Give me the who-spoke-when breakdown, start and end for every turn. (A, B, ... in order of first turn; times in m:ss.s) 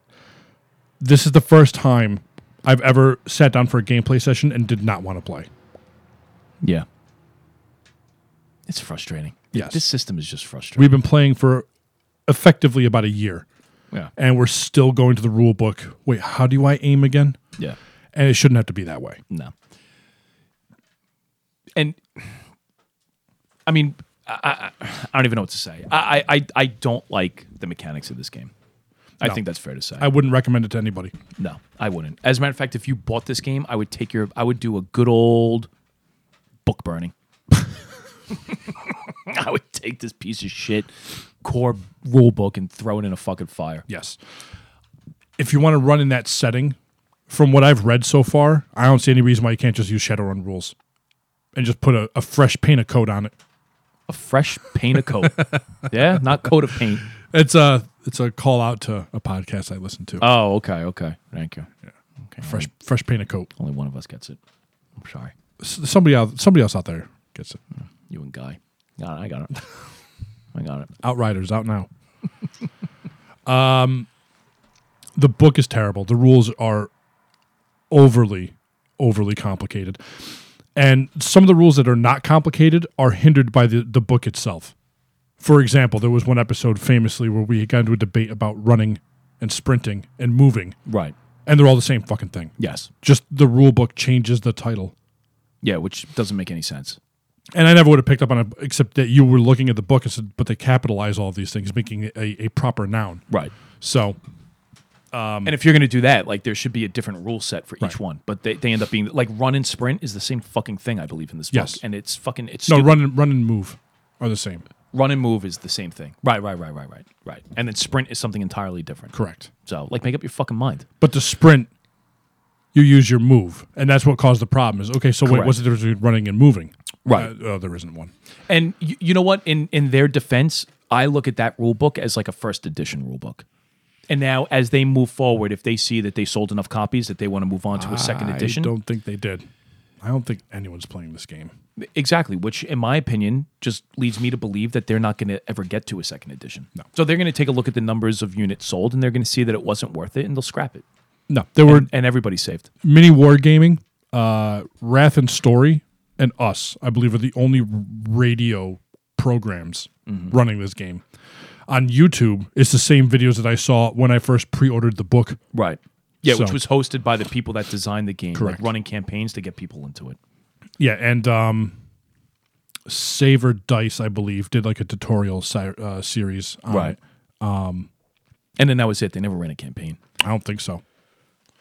0:01.0-0:05.5 A
0:08.7-0:11.0 B
0:09.5-0:09.8 A
0:10.8-0:11.6 A
0:12.2-0:13.4 A
0:14.2-0:17.4 A
0:18.1-0:19.2 A
0:21.8-0:22.4 B
0:23.6-0:28.5 B
0:29.2-0:30.1 B
0:30.0-0:31.1 A
0:31.4-0:35.7 B
0:36.6-0:37.1 B
0:39.1-0:43.8 B
0:43.9-0:44.2 A
0:45.4-0:46.8 A
0:47.3-0:50.7 A
0:51.5-0:53.3 A
0:54.1-0:57.1 B
0:57.1-1:00.3 A
1:00.2-1:01.7 B
1:02.2-1:02.7 B
1:02.4-1:03.5 A
1:03.6-1:04.4 B
1:05.0-1:05.3 B
1:05.6-1:07.6 A
1:08.1-1:09.6 B
1:10.5-1:10.9 B
1:11.0-1:11.9 A
1:13.4-1:14.1 A
1:15.2-1:16.9 A
1:17.9-1:20.0 A
1:20.7-1:24.7 A
1:25.4-1:30.8 A
1:30.8-1:31.1 B
1:31.4-1:34.9 A
1:32.6-1:32.9 B
1:35.6-1:37.0 B
1:37.5-1:43.2 A
1:43.3-1:43.5 B
1:43.8-1:44.2 A
1:45.1-1:45.5 A
1:45.4-1:53.0 B
1:51.5-1:51.8 A
1:52.7-1:54.6 A
1:54.9-1:59.1 B
1:59.1-1:59.5 A
1:59.6-2:00.8 B
2:01.0-2:01.7 A
2:02.7-2:08.1 A
2:05.2-2:05.6 B
2:07.0-2:07.3 B
2:08.5-2:13.4 B
2:14.1-2:18.7 B
2:17.7-2:19.5 A
2:20.0-2:21.5 A
2:21.8-2:30.8 B
2:31.3-2:31.9 A
2:31.6-2:32.7 B
2:32.8-2:41.0 A
2:40.1-2:40.3 B
2:41.7-2:45.4 A
2:45.5-2:50.2 B
2:46.2-2:46.6 A
2:48.3-2:48.7 A
2:50.8-2:51.8 A
2:52.8-2:57.9 A
2:56.7-2:57.0 B
2:58.6-3:00.0 B
3:00.2-3:00.8 A